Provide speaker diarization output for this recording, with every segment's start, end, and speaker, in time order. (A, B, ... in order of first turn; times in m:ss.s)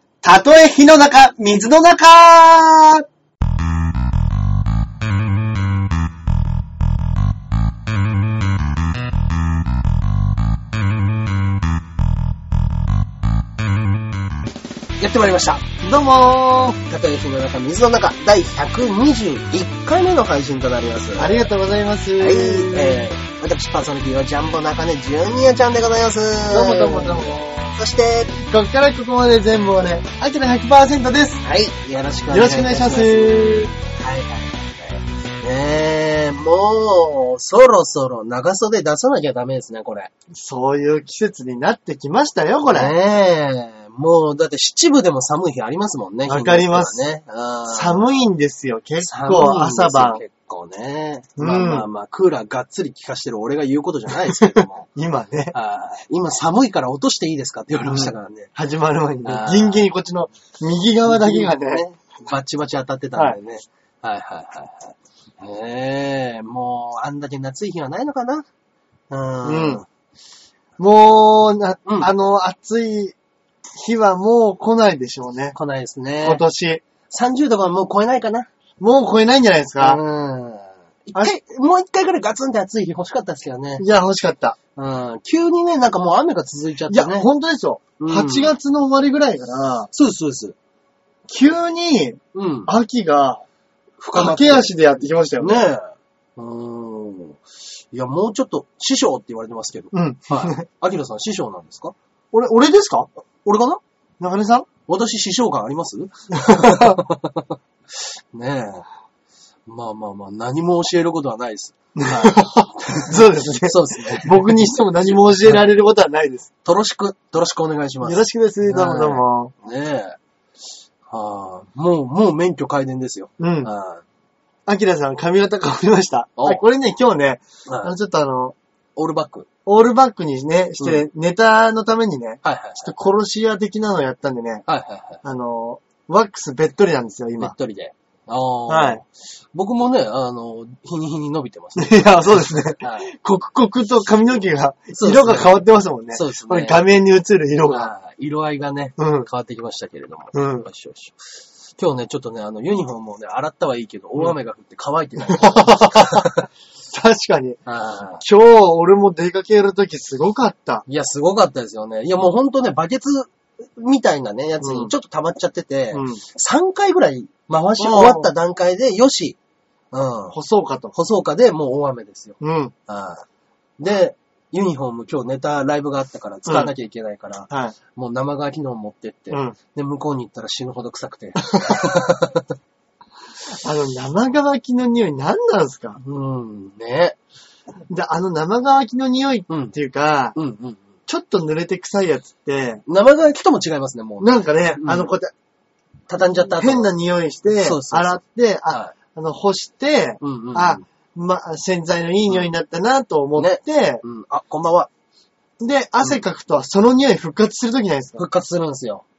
0:00.2-0:03.0 A
0:15.0-0:15.6 B
0:15.8-0:16.8 A
0:16.9-0:21.5 B
0:21.2-0:23.0 A
0:22.2-0:28.4 B
0:26.5-0:27.8 A
0:28.4-0:31.4 A
0:31.4-0:40.1 B
0:32.3-0:33.7 A
0:40.3-0:43.0 A
0:42.6-0:48.2 B
0:46.3-0:47.0 A
0:47.7-0:50.2 A
0:49.0-0:54.9 B
0:51.4-0:51.9 A
0:54.3-0:55.5 A
0:55.5-0:58.5 B
0:57.9-1:01.8 A
0:59.2-0:59.9 B
1:01.1-1:08.5 B
1:09.1-1:09.8 B
1:09.4-1:09.8 A
1:10.8-1:13.2 A
1:13.8-1:15.6 A
1:15.5-1:16.4 B
1:16.2-1:16.8 A
1:17.1-1:18.5 B
1:18.8-1:20.0 A
1:19.8-1:23.9 B
1:23.8-1:24.6 A
1:24.8-1:27.3 B
1:26.9-1:29.9 A
1:28.0-1:28.5 B
1:29.9-1:30.6 B
1:31.3-1:33.4 A
1:32.3-1:32.7 B
1:34.0-1:37.4 B
1:34.1-1:35.7 A
1:37.9-1:42.0 B
1:39.9-1:40.6 A
1:42.3-1:43.1 A
1:43.4-1:43.8 B
1:44.2-1:44.7 A
1:44.9-1:48.9 B
1:46.3-1:47.0 A
1:49.7-1:55.6 B
1:52.0-1:56.5 A
1:56.6-2:00.2 B
1:58.0-1:59.5 A
2:01.1-2:04.0 B
2:03.4-2:03.7 A
2:04.7-2:08.6 A
2:06.4-2:06.6 B
2:07.7-2:07.9 B
2:09.0-2:09.5 B
2:09.7-2:14.6 A
2:12.4-2:13.0 B
2:14.7-2:15.2 B
2:15.2-2:17.5 A
2:17.4-2:23.1 B
2:18.7-2:19.0 A
2:21.8-2:27.9 A
2:24.9-2:26.9 B
2:27.7-2:31.2 B
2:29.0-2:29.3 A
2:30.3-2:30.7 A
2:31.8-2:36.5 B
2:35.2-2:36.3 A
2:36.9-2:37.6 A
2:37.7-2:38.2 B
2:38.2-2:40.8 A
2:40.9-2:49.4 B
2:44.6-2:44.9 A
2:45.9-2:46.2 A
2:47.8-2:48.3 A
2:49.9-2:50.4 B
2:50.3-2:50.9 A
2:50.9-2:53.2 B
2:52.4-2:52.7 A
2:53.8-3:02.5 B
2:56.5-2:56.7 A
2:57.5-2:57.8 A
2:59.3-2:59.6 A
3:01.5-3:01.9 A
3:03.5-3:06.0 A
3:06.0-3:07.2 B
3:07.9-3:10.4 A
3:09.5-3:09.8 B
3:10.4-3:10.9 B
3:11.1-3:12.8 A
3:12.9-3:15.1 B
3:14.2-3:15.3 A
3:16.1-3:16.9 B
3:16.6-3:24.0 A
3:17.6-3:18.9 B
3:20.2-3:20.8 B
3:23.4-3:24.9 B
3:25.6-3:28.3 A
3:28.2-3:29.0 B